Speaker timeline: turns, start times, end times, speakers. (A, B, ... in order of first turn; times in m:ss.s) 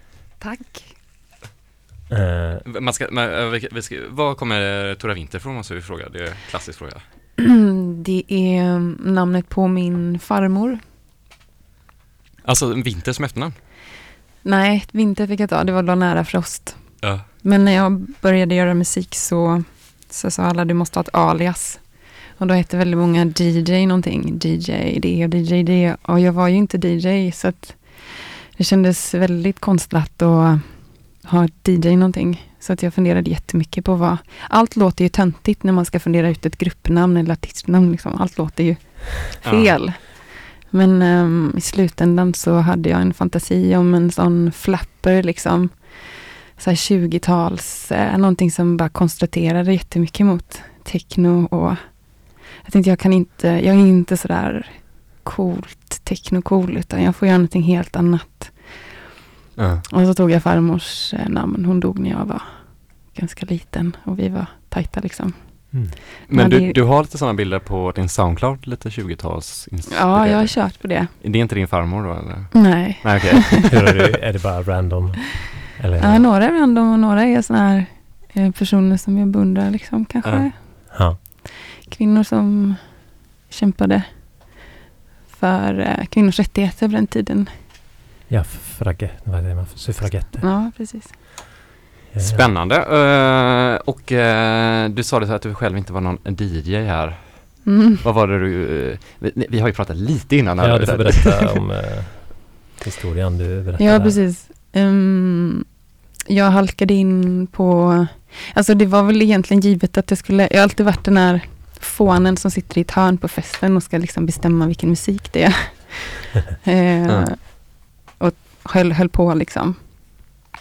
0:00.4-0:01.0 A
0:02.1-0:02.6 B
0:02.6-0:07.0 C
0:07.4-0:10.8 A
0:12.4-0:13.6 C
0:14.4-0:59.0 A
0:17.0-0:17.2 C
0:39.4-0:39.8 C
0:59.6-0:59.8 C
0:59.9-1:06.8 A
1:06.3-1:13.9 C
1:09.9-1:11.1 A
1:12.5-1:13.4 A
1:13.6-1:16.3 B
1:16.0-1:24.7 A
1:20.2-1:20.5 C
1:20.9-1:21.2 B
1:25.3-1:27.5 A
1:28.3-1:30.7 B
1:30.4-1:31.1 A
1:32.1-1:32.5 B
1:32.2-1:41.5 C
1:37.6-1:38.0 A
1:40.6-1:44.2 B
1:43.8-1:45.7 A
1:46.3-2:00.4 A